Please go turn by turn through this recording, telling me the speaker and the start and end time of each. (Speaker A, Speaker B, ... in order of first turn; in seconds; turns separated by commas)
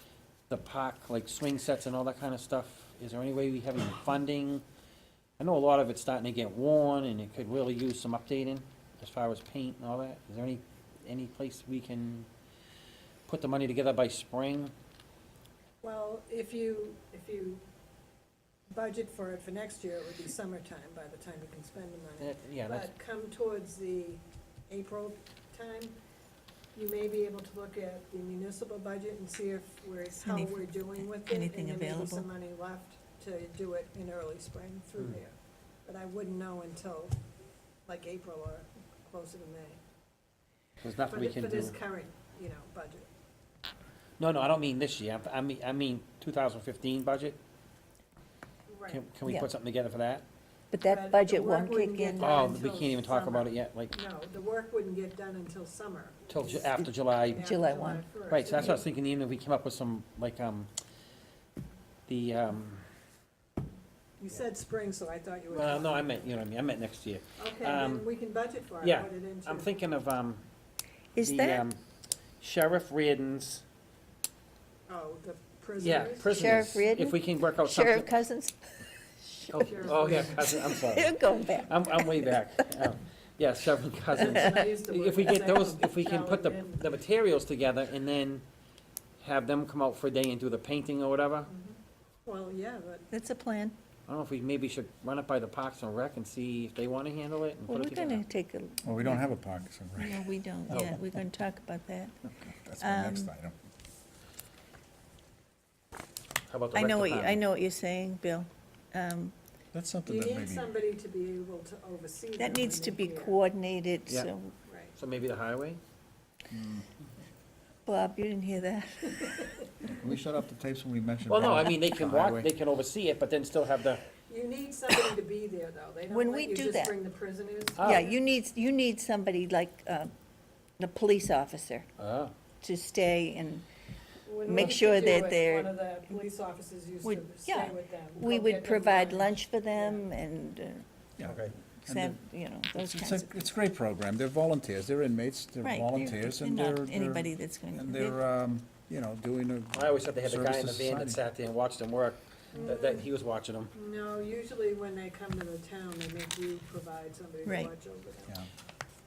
Speaker A: 0.5-4.6, Speaker A: 5.4-12.3, Speaker A: 13.3-14.7, Speaker B: 15.8-17.6, Speaker B: 18.7-25.9, Speaker A: 22.2-22.9, Speaker B: 26.7-35.3, Speaker C: 30.2-32.2, Speaker B: 35.9-37.2, Speaker B: 37.9-39.8, Speaker A: 40.8-41.7, Speaker B: 41.1-43.1, Speaker A: 44.2-47.4, Speaker B: 48.7-49.0, Speaker A: 48.9-50.2, Speaker C: 49.2-49.5, Speaker C: 50.7-52.4, Speaker B: 50.8-56.7, Speaker A: 52.2-53.9, Speaker A: 56.3-57.5, Speaker C: 56.8-58.8, Speaker B: 57.3-58.8, Speaker A: 58.3-60.7, Speaker A: 62.1-62.8, Speaker B: 64.2-66.2, Speaker A: 65.5-68.0, Speaker B: 67.4-69.7, Speaker A: 68.8-70.5, Speaker C: 71.1-71.6, Speaker A: 71.2-71.8, Speaker A: 72.4-73.6, Speaker B: 74.9-76.8, Speaker A: 75.8-78.1, Speaker C: 76.3-82.9, Speaker A: 79.5-88.4, Speaker B: 79.6-80.5, Speaker B: 84.1-86.8, Speaker C: 84.2-84.6, Speaker A: 89.2-91.5, Speaker B: 91.5-93.1, Speaker C: 93.1-93.8, Speaker A: 94.1-98.2, Speaker C: 97.7-99.3, Speaker D: 98.8-101.0, Speaker C: 100.0-102.2, Speaker D: 102.2-103.5, Speaker C: 102.8-103.3, Speaker A: 106.5-107.4, Speaker C: 106.7-109.3, Speaker D: 109.7-110.7, Speaker B: 110.0-113.4, Speaker C: 112.4-114.5, Speaker B: 114.7-114.9, Speaker A: 115.0-115.8, Speaker D: 116.5-116.9, Speaker C: 117.8-119.8, Speaker B: 119.2-119.5, Speaker D: 119.8-122.5, Speaker A: 121.3-124.0, Speaker B: 124.3-128.1, Speaker C: 126.1-126.9, Speaker A: 127.8-128.1, Speaker C: 127.8-130.1, Speaker C: 130.8-131.9, Speaker A: 132.0-132.3, Speaker C: 132.6-133.7, Speaker B: 134.2-140.1, Speaker C: 134.4-136.2, Speaker C: 137.0-140.8, Speaker D: 141.2-142.2, Speaker A: 141.2-141.6, Speaker C: 141.8-143.4, Speaker D: 142.7-151.2, Speaker C: 145.6-148.2, Speaker A: 149.7-153.7, Speaker B: 152.5-153.1, Speaker B: 153.7-158.3, Speaker C: 157.4-157.7